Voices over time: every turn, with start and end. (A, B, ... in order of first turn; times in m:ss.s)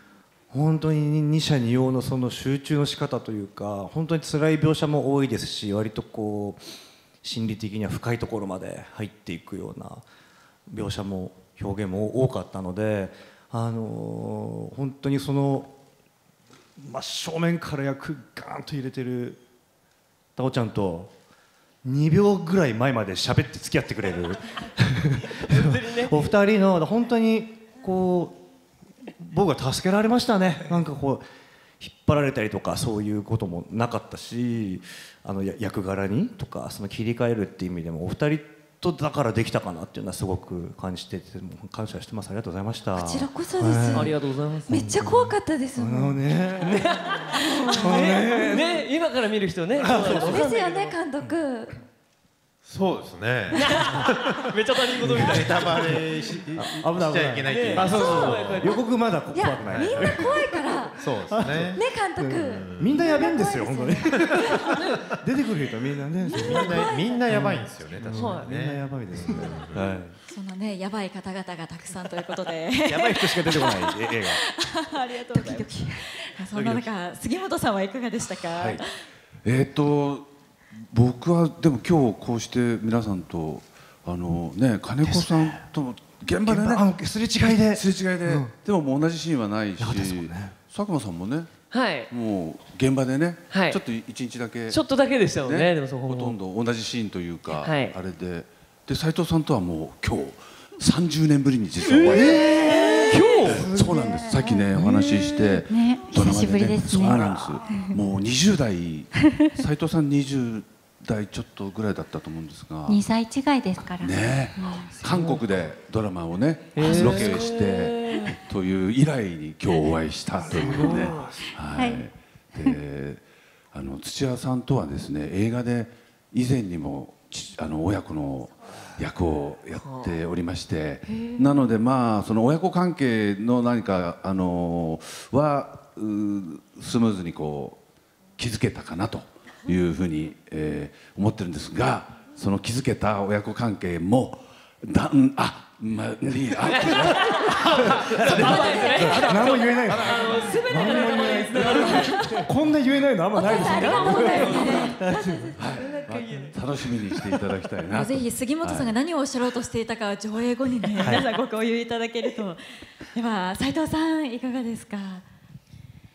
0:00.5-0:06.7 A
0:07.2-0:10.0 A
0:10.7-0:15.7 A
0:16.8-0:19.4 A
0:20.4-0:21.1 A
0:21.8-0:28.4 A
0:25.5-0:26.2 B
0:29.2-0:31.2 A
0:31.8-0:48.9 A
0:43.0-0:46.2 C
0:43.9-0:44.8 B
0:47.0-0:50.5 B
0:47.4-0:48.4 C
0:49.8-0:50.5 A
0:49.9-0:51.8 C
0:52.6-0:54.4 D
0:53.6-0:55.9 B
0:55.1-0:58.7 D
0:55.1-0:56.0 A
0:56.6-1:00.5 A
0:57.5-0:58.8 B
0:57.9-0:58.3 C
0:59.3-1:01.0 C
0:59.8-1:00.3 D
1:01.0-1:01.8 D
1:01.3-1:10.2 A
1:01.8-1:04.9 C
1:02.4-1:03.0 D
1:04.1-1:05.1 D
1:06.3-1:07.4 C
1:06.3-1:10.0 D
1:08.2-1:08.5 B
1:10.3-1:18.9 E
1:12.9-1:14.4 A
1:15.3-1:15.9 A
1:16.6-1:16.8 A
1:18.5-1:18.8 F
1:19.4-1:20.3 F
1:20.9-1:31.5 F
1:25.0-1:25.6 A
1:26.3-1:28.5 A
1:29.8-1:30.6 A
1:31.7-1:32.1 B
1:32.1-1:34.8 F
1:33.5-1:33.8 B
1:34.7-1:36.4 B
1:35.4-1:42.6 F
1:37.6-1:38.0 B
1:41.9-1:43.7 B
1:42.1-1:44.4 A
1:43.4-1:53.0 F
1:44.5-1:48.0 G
1:49.2-1:49.5 G
1:52.9-1:55.0 G
1:54.0-2:17.8 F
1:55.1-1:55.4 B
1:56.8-1:58.3 B
1:56.8-1:57.1 G
1:58.1-1:58.4 G
2:00.6-2:01.5 B
2:00.6-2:00.9 G
2:00.8-2:01.3 A
2:01.7-2:02.0 G
2:09.8-2:10.1 B
2:11.1-2:11.5 G
2:18.4-2:32.2 F
2:26.6-2:32.4 B
2:26.8-2:35.6 A
2:31.9-2:32.4 E
2:33.4-2:35.0 E
2:33.4-2:36.5 C
2:33.4-2:35.0 B
2:35.6-2:39.0 F
2:37.9-2:42.6 E
2:41.0-2:41.2 A
2:43.1-2:45.2 E